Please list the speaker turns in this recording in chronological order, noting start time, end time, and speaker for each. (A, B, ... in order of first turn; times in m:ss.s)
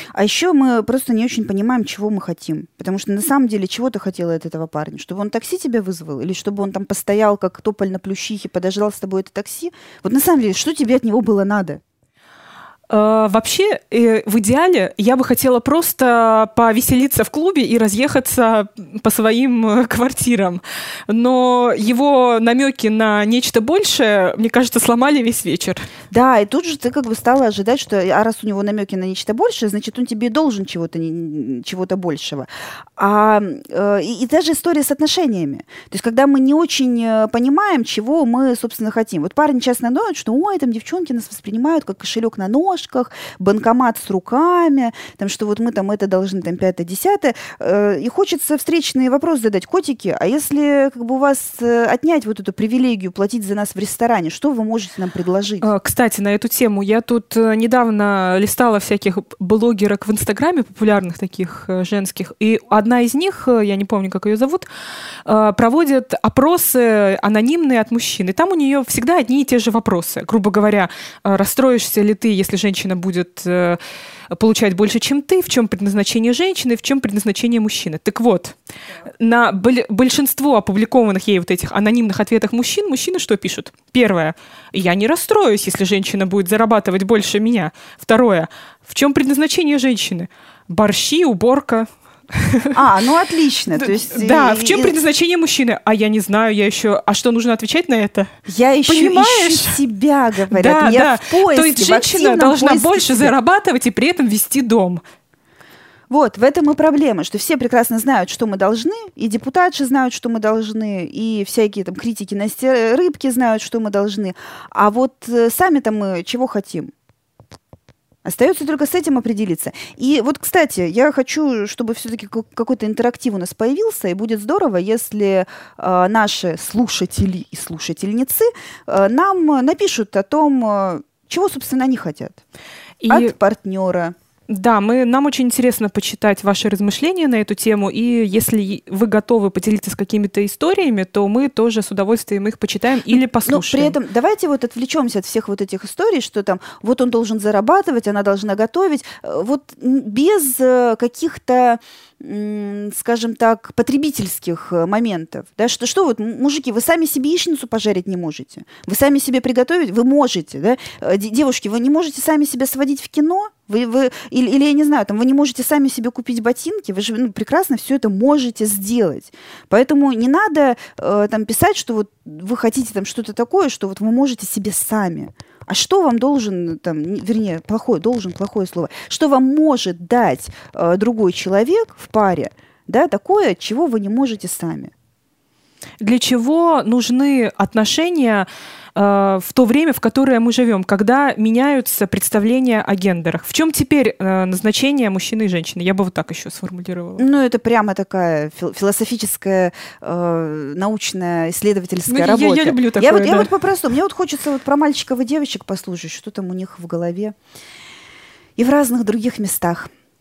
0:00.1-0:11.8 A
0:12.9-0:25.8 B
0:26.1-0:55.7 A
0:55.6-1:04.6 B
1:05.2-1:13.8 B
1:14.3-1:18.6 B
1:19.2-1:32.8 B
1:32.7-1:34.9 A
1:33.8-1:38.3 B
1:38.5-1:43.3 A
1:38.9-1:39.8 B
1:40.5-1:45.0 B
1:46.1-1:56.9 A
1:58.2-2:12.4 A
2:13.0-2:13.3 B
2:13.1-2:14.1 A
2:14.5-2:23.9 B
2:23.4-3:04.9 A
3:06.0-3:17.3 B
3:17.2-3:27.4 A
3:22.1-3:23.5 B
3:28.6-3:29.9 A